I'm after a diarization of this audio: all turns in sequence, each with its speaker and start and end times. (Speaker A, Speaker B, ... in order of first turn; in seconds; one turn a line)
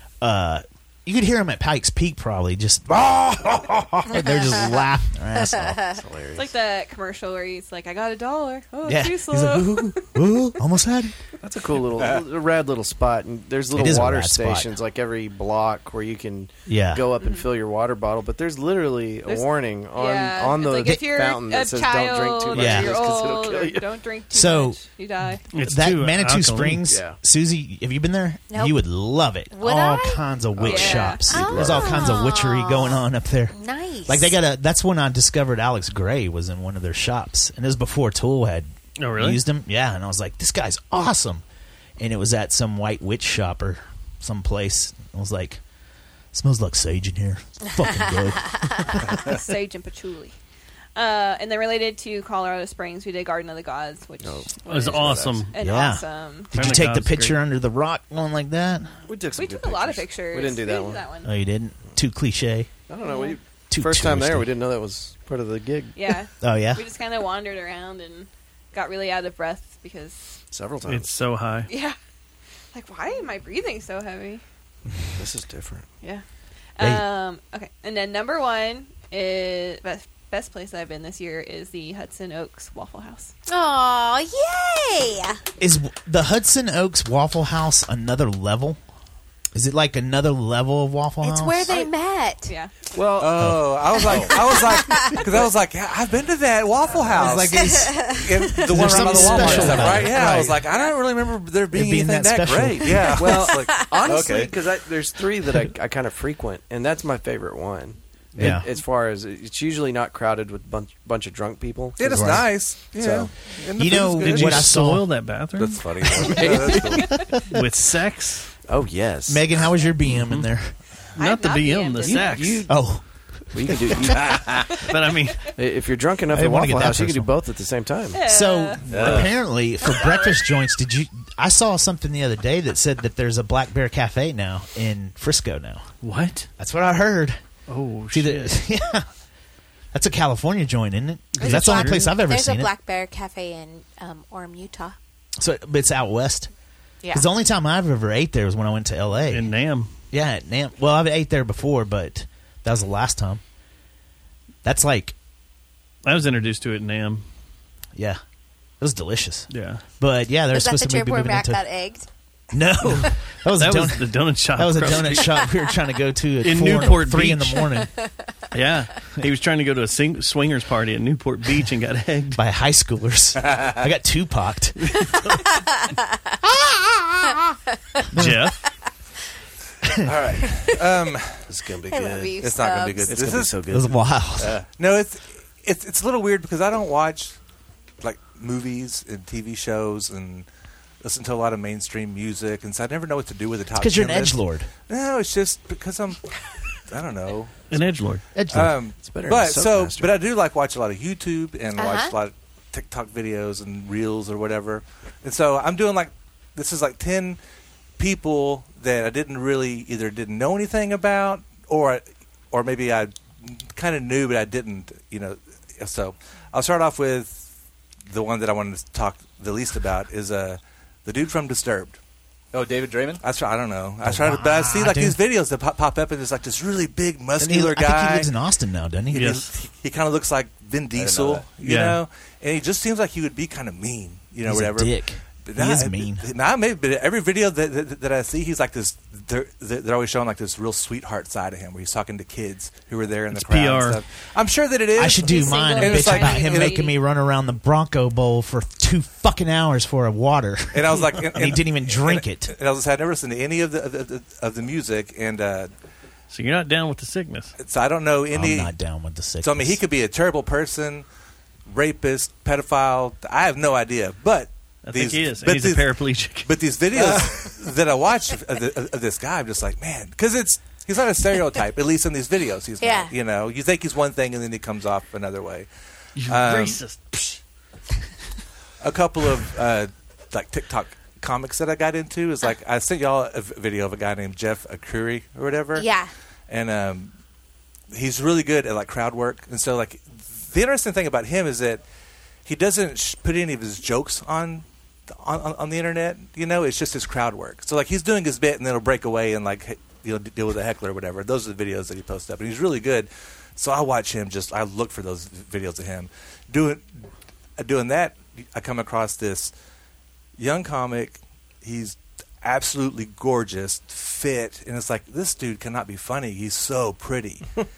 Speaker A: 0.2-5.9
Speaker B: 5.9-6.5
Speaker C: 6.3-10.4
Speaker A: 8.8-11.1
Speaker B: 11.4-23.9
Speaker A: 13.7-14.7
Speaker A: 16.7-17.1
Speaker C: 17.2-17.5
Speaker C: 19.3-25.4
Speaker A: 22.5-22.9
Speaker A: 24.3-24.8
Speaker D: 25.5-26.9
Speaker A: 25.6-41.4
Speaker B: 26.9-27.2
Speaker E: 28.5-28.8
Speaker E: 29.5-30.2
Speaker B: 30.6-32.1
Speaker C: 30.6-31.4
Speaker E: 31.0-34.3
Speaker D: 39.0-39.4
Speaker A: 42.0-45.6
Speaker A: 46.3-49.4
Speaker C: 49.3-50.3
Speaker C: 51.0-56.6
Speaker B: 54.2-55.5
Speaker D: 54.6-55.5
Speaker A: 55.6-58.9
Speaker D: 56.5-57.4
Speaker B: 59.1-61.1
Speaker C: 59.3-61.3
Speaker A: 61.2-62.7
Speaker B: 62.9-66.2
Speaker C: 63.0-63.4
Speaker A: 63.7-64.5
Speaker C: 66.0-70.4
Speaker A: 66.4-66.8
Speaker B: 70.5-71.1
Speaker D: 70.9-71.7
Speaker C: 71.7-72.0
Speaker C: 72.7-74.4
Speaker B: 75.1-75.8
Speaker C: 76.8-83.3
Speaker A: 76.8-77.0
Speaker E: 83.5-85.4
Speaker A: 85.6-88.8
Speaker A: 89.5-91.7
Speaker E: 91.2-92.5
Speaker C: 92.5-92.7
Speaker B: 92.9-93.5
Speaker F: 93.2-103.8
Speaker A: 93.4-93.8
Speaker G: 94.0-94.3
Speaker E: 94.2-95.2
Speaker A: 97.1-100.6
Speaker E: 97.5-99.9
Speaker B: 99.5-100.1
Speaker A: 101.7-103.2
Speaker B: 103.1-113.3
Speaker E: 103.7-104.0
Speaker G: 104.0-104.5
Speaker A: 108.4-108.7
Speaker F: 112.0-114.7
Speaker A: 112.0-112.6
Speaker A: 113.8-115.3
Speaker D: 114.1-115.8
Speaker F: 115.5-117.2
Speaker B: 116.2-117.1
Speaker A: 117.1-117.4
Speaker D: 117.5-118.5
Speaker B: 118.7-119.7
Speaker A: 119.3-120.8
Speaker D: 120.2-120.5
Speaker D: 121.1-122.7
Speaker C: 121.2-122.6
Speaker E: 121.2-122.1
Speaker B: 122.0-123.0
Speaker A: 122.7-123.6
Speaker B: 123.5-124.6
Speaker G: 124.2-124.6
Speaker D: 124.9-125.5
Speaker B: 125.6-128.2
Speaker A: 126.3-127.3
Speaker C: 128.1-128.8
Speaker A: 128.2-135.9
Speaker G: 128.9-129.3
Speaker D: 128.9-129.3
Speaker C: 129.8-130.4
Speaker D: 136.0-136.5
Speaker A: 136.6-137.4
Speaker D: 137.7-138.6
Speaker A: 138.1-139.1
Speaker A: 139.9-142.7
Speaker D: 141.3-142.1
Speaker E: 141.4-145.0
Speaker A: 145.4-146.5
Speaker E: 147.0-147.3
Speaker A: 147.1-149.5
Speaker D: 149.3-149.9
Speaker A: 150.1-153.4
Speaker A: 154.6-155.1
Speaker D: 156.0-157.2
Speaker A: 157.9-158.2
Speaker A: 158.8-161.6
Speaker D: 159.5-159.8
Speaker E: 160.5-162.1
Speaker A: 162.5-167.9
Speaker D: 163.6-165.4
Speaker D: 166.4-167.7
Speaker D: 168.5-172.4
Speaker A: 172.3-175.1
Speaker A: 178.1-178.5
Speaker D: 178.1-178.7
Speaker F: 180.0-181.4
Speaker B: 181.5-182.4
Speaker E: 181.9-183.2
Speaker F: 182.4-183.6
Speaker B: 183.0-184.1
Speaker A: 183.7-184.6
Speaker F: 184.6-187.4
Speaker F: 188.0-190.5
Speaker F: 191.0-196.2
Speaker A: 193.8-194.7
Speaker F: 196.9-197.6
Speaker D: 197.7-198.2
Speaker A: 198.3-198.8
Speaker F: 198.5-207.4
Speaker B: 198.9-200.2
Speaker E: 201.8-202.1
Speaker F: 208.0-217.4
Speaker F: 218.1-222.0
Speaker G: 222.5-223.2
Speaker F: 223.2-228.3
Speaker A: 224.0-225.2
Speaker A: 227.4-229.4
Speaker D: 229.1-229.5
Speaker F: 229.2-246.9
Speaker G: 230.9-231.4
Speaker D: 231.6-232.0
Speaker A: 234.4-236.2
Speaker D: 243.3-244.0
Speaker A: 244.9-252.5
Speaker C: 245.2-246.9
Speaker E: 245.3-246.8
Speaker F: 250.7-255.7
Speaker D: 256.3-257.5
Speaker F: 257.6-258.7
Speaker A: 258.3-259.8
Speaker F: 259.4-261.0
Speaker F: 261.7-265.9
Speaker D: 264.8-266.6
Speaker F: 266.4-275.7
Speaker E: 272.8-273.1
Speaker D: 276.1-277.4
Speaker F: 276.2-276.8
Speaker F: 278.8-285.9
Speaker E: 285.7-286.1
Speaker F: 286.5-287.1
Speaker F: 287.9-291.8
Speaker F: 292.4-306.9
Speaker F: 307.6-309.5
Speaker F: 310.4-317.5